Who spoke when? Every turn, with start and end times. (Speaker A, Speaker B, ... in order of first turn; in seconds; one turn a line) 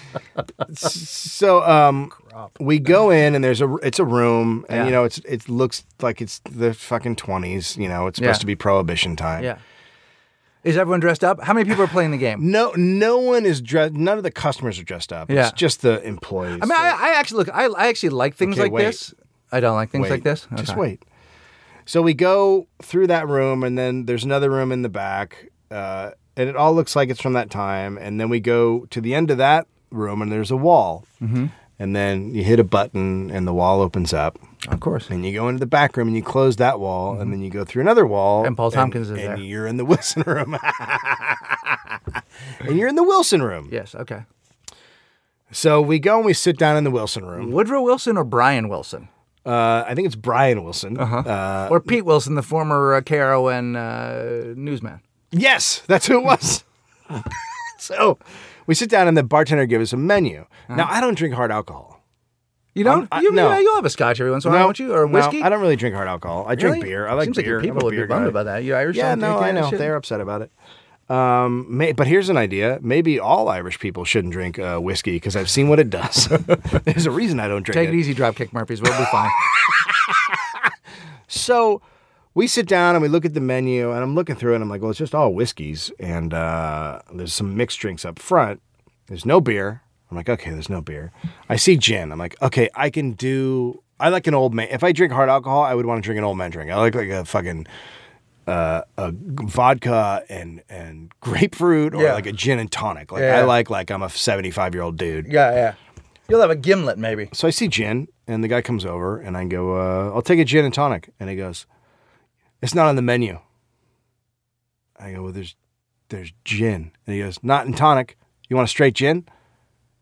Speaker A: 0.6-9.5
Speaker B: 4.7-5.0
Speaker B: 8.2-8.4
Speaker B: 10.6-12.4
Speaker A: 12.4-16.9
Speaker B: 15.3-15.6
Speaker B: 16.6-20.8
Speaker A: 18.4-19.0
Speaker A: 19.9-21.0
Speaker A: 21.9-31.1
Speaker B: 31.2-31.5
Speaker A: 31.8-34.4
Speaker B: 34.6-35.1
Speaker A: 35.1-43.7
Speaker B: 38.4-39.4
Speaker B: 43.7-44.2
Speaker A: 45.5-47.5
Speaker B: 47.4-49.1
Speaker A: 49.4-51.9
Speaker B: 51.0-55.0
Speaker A: 55.3-62.0
Speaker B: 62.7-65.5
Speaker A: 62.8-63.6
Speaker A: 64.4-68.4
Speaker B: 66.5-69.9
Speaker A: 68.9-70.5
Speaker A: 71.1-78.0
Speaker B: 77.7-79.4
Speaker A: 79.1-80.7
Speaker A: 81.3-81.8
Speaker A: 82.3-97.7
Speaker A: 98.5-105.3
Speaker B: 101.9-102.2
Speaker B: 103.1-103.5
Speaker B: 105.2-105.8
Speaker B: 106.3-107.3
Speaker A: 107.3-111.7
Speaker A: 112.6-113.4
Speaker A: 115.0-115.5
Speaker A: 116.1-119.2